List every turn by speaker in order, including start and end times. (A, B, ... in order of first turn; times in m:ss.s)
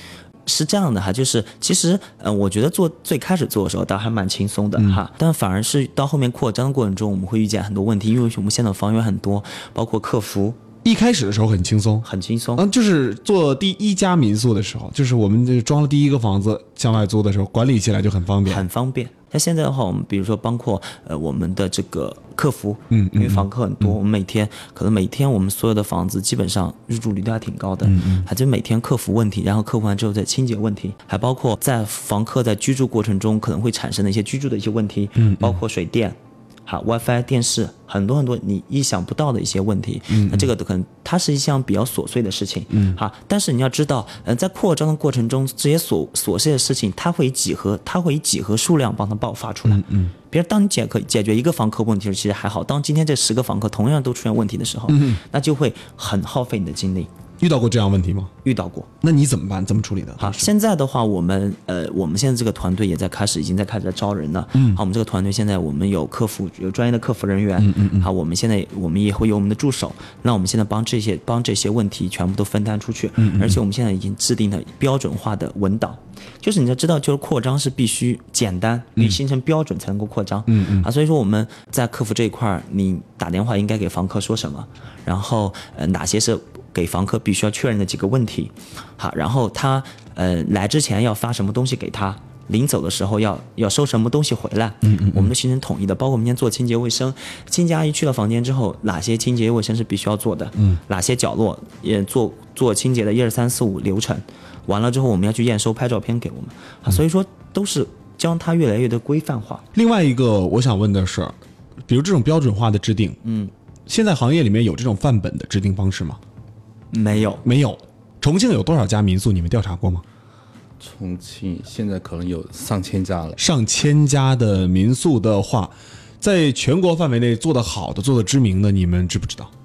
0:00.5-0:10.6 A
0:10.8-0:18.6 B
0:12.0-0:12.6 A
0:18.5-0:57.1 A
0:22.9-0:23.9 B
0:27.8-0:28.3 B
0:35.2-0:35.6 B
0:40.1-0:40.5 B
0:42.7-0:43.0 B
0:49.7-0:50.1 B
0:54.9-0:55.2 B
0:57.4-0:58.3 B
0:58.4-0:58.9 A
0:59.0-1:00.5 B
1:00.2-1:49.6 A
1:04.6-1:04.8 B
1:07.6-1:08.1 B
1:13.2-1:13.6 B
1:20.5-1:20.9 B
1:34.8-1:35.3 B
1:49.7-1:53.2 B
1:53.2-1:53.5 A
1:53.9-1:56.2 B
1:56.9-1:57.4 A
1:57.4-2:00.0 B
2:00.8-2:03.4 C
2:03.4-2:09.5 B